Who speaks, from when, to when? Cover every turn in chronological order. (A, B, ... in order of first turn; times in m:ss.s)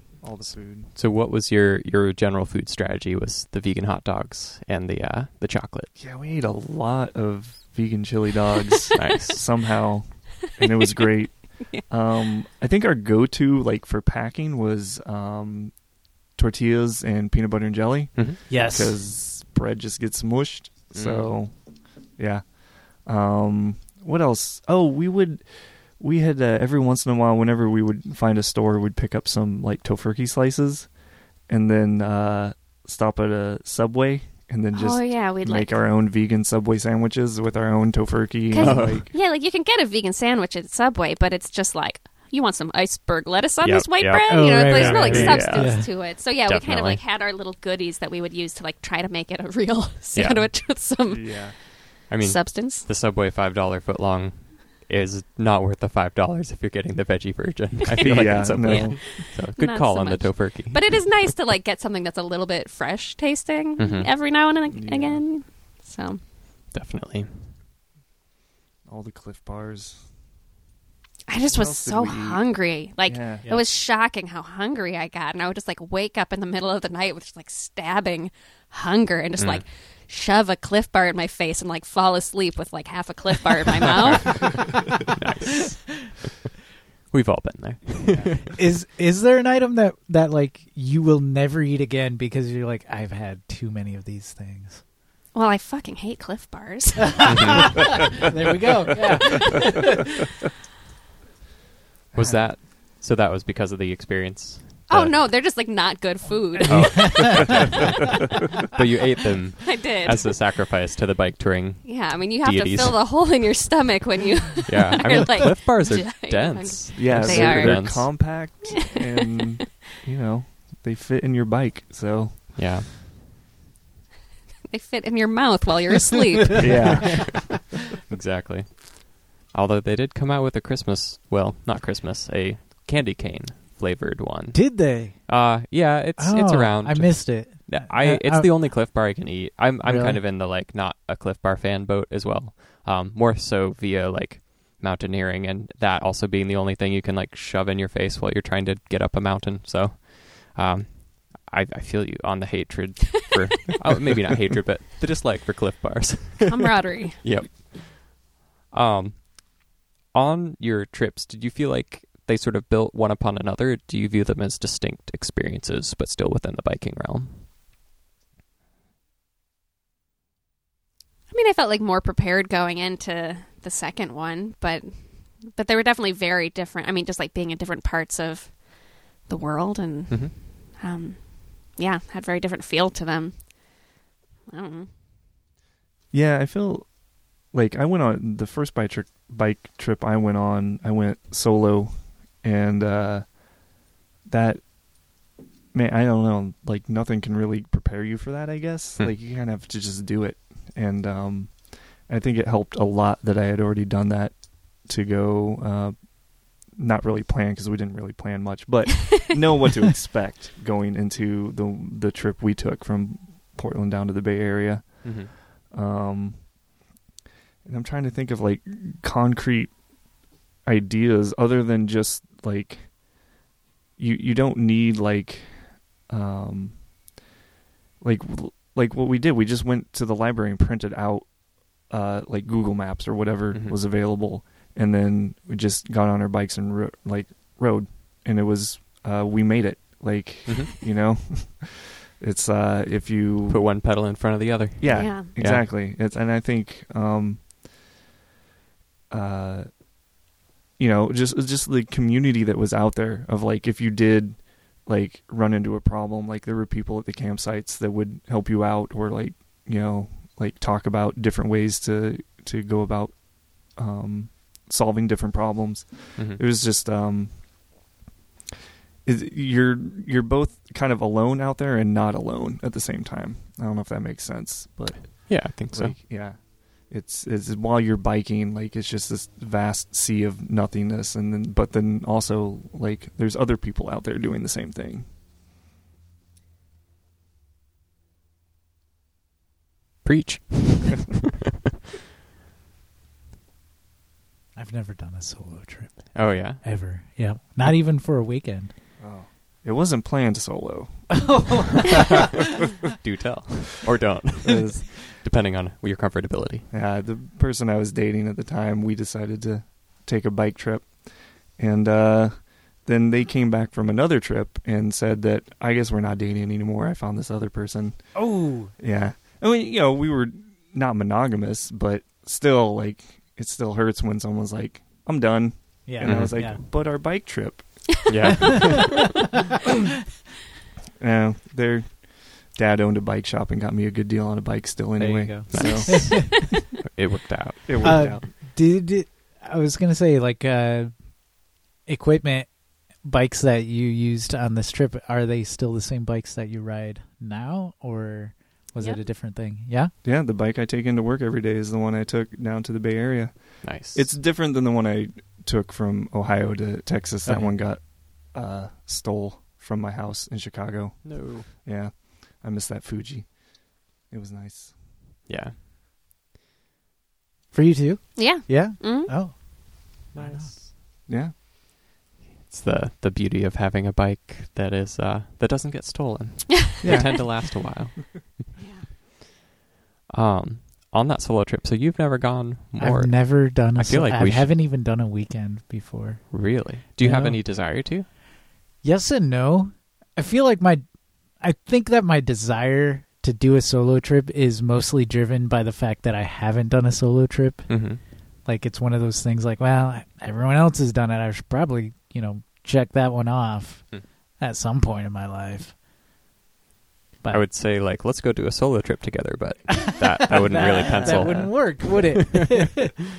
0:00.2-0:00.9 A
0:00.9-0:05.9 B
0:06.0-0:30.9 A
0:09.0-0:09.4 B
0:18.1-0:18.4 B
0:18.5-0:19.0 C
0:20.9-0:21.4 B
0:31.5-0:39.1 A
0:34.7-0:35.7 D
0:38.5-0:52.9 D
0:38.6-0:39.1 B
0:43.6-0:45.6 B
0:44.3-0:45.9 C
0:45.0-0:45.7 A
0:46.2-0:47.0 B
0:50.1-0:50.5 B
0:51.0-0:51.6 A
0:52.1-1:01.0 B
0:57.9-1:06.2 D
0:58.0-0:59.2 A
1:03.8-1:04.1 B
1:04.7-1:05.2 A
1:06.7-1:07.5 B
1:08.8-1:10.0 A
1:11.3-1:24.8 D
1:11.4-1:12.4 A
1:13.0-1:13.4 A
1:19.4-1:19.6 B
1:24.1-1:26.1 B
1:27.1-1:28.5 B
1:28.1-1:34.8 C
1:35.3-1:37.7 D
1:37.2-1:40.0 C
1:37.2-1:37.8 B
1:42.1-1:42.5 A
1:42.1-1:45.2 B
1:44.9-1:48.0 D
1:46.6-1:48.0 B
1:46.8-1:47.3 C
1:47.3-1:47.7 A
1:48.7-1:53.0 B
1:49.6-1:50.3 D
1:51.8-1:58.0 D
1:54.6-1:58.2 B
1:56.9-2:02.6 A
1:58.7-1:59.4 D
2:02.5-2:02.9 B
2:04.7-2:06.9 D
2:06.6-2:07.5 A
2:08.1-2:47.4 B
2:14.5-2:15.4 C
2:16.2-2:18.5 C
2:19.8-2:20.2 C
2:36.4-2:37.2 D
2:51.3-3:03.9 D
3:00.1-3:00.4 B
3:04.5-3:04.9 D
3:06.1-3:13.4 A
3:14.2-3:14.6 A
3:15.7-3:36.5 A
3:35.0-3:35.3 B
3:37.6-3:39.8 A
3:40.6-3:43.0 A
3:44.0-3:46.9 A
3:48.0-4:03.8 A
3:53.5-3:53.8 B
4:00.4-4:00.7 B
4:03.5-4:05.6 B
4:04.8-4:07.5 A
4:04.9-4:05.3 D
4:09.1-4:09.7 A
4:10.8-4:27.4 A
4:26.2-4:26.4 B
4:29.0-4:45.1 A
4:35.0-4:36.0 B
4:50.0-4:51.2 B
4:54.6-4:58.7 C
4:56.1-4:56.6 B
4:59.0-5:01.5 A
5:01.1-5:02.3 C
5:03.0-5:06.6 B
5:04.4-5:04.8 A
5:06.7-5:28.3 A
5:18.1-5:18.7 C
5:25.8-5:26.6 C
5:26.0-5:26.4 B
5:28.1-5:29.1 B
5:31.0-5:36.5 A
5:35.0-5:36.2 C
5:35.5-5:38.1 B
5:37.6-5:38.3 A
5:37.8-5:41.1 C
5:41.8-5:49.9 C
5:50.0-6:04.8 A
5:53.6-5:54.1 B
5:57.2-5:57.5 C
6:01.0-6:01.5 B
6:05.3-6:05.6 B
6:07.5-6:09.4 C
6:08.2-6:09.1 D
6:09.9-6:10.5 C
6:10.1-6:10.7 B
6:11.1-6:11.3 A
6:12.5-6:18.5 B
6:16.8-6:17.2 A
6:18.6-6:18.9 D
6:20.1-6:24.5 B
6:22.8-6:27.4 C
6:26.3-6:28.1 B
6:28.8-6:30.8 C
6:31.4-6:45.8 C
6:37.7-6:38.0 B
6:47.3-6:52.9 B
6:49.9-6:52.9 C
6:50.4-6:51.7 A